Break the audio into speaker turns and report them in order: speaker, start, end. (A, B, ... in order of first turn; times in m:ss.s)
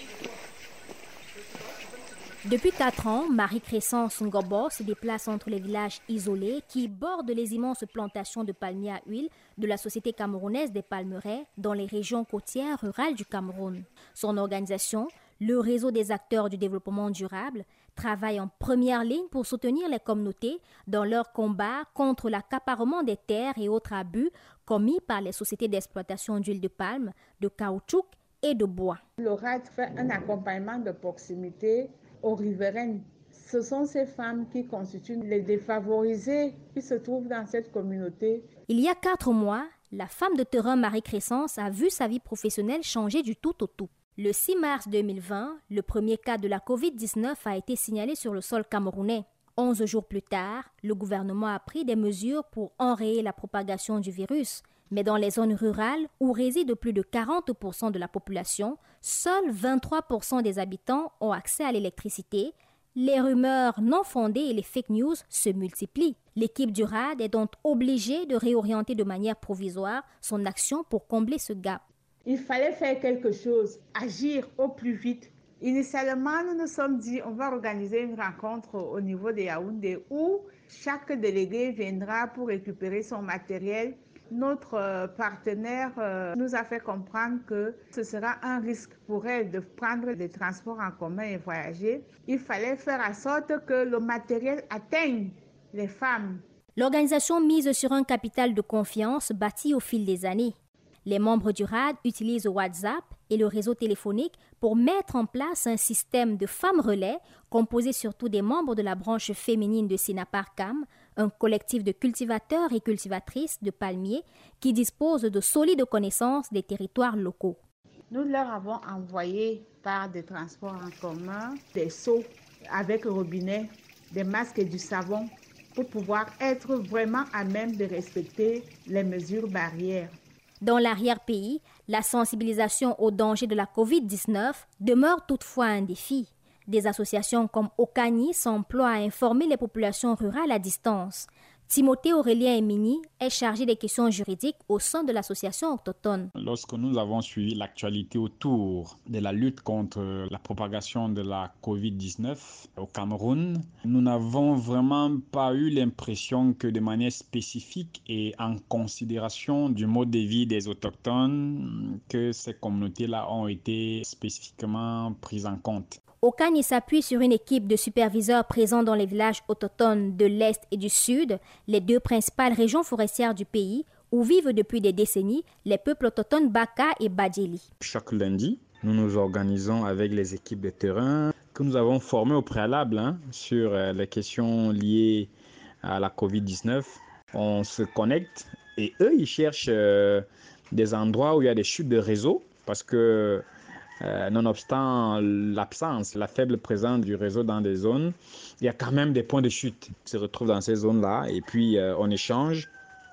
0:02.4-0:29.0 A
0:29.2-0:38.5 B
0:38.7-1:11.8 A
1:12.3-1:36.4 B
1:36.8-1:57.6 A
1:58.1-2:10.2 B
2:10.6-2:26.3 A
2:26.4-2:46.0 C
2:46.2-2:57.7 A
2:57.8-3:05.3 C
3:05.8-3:13.4 C
3:14.0-3:22.7 C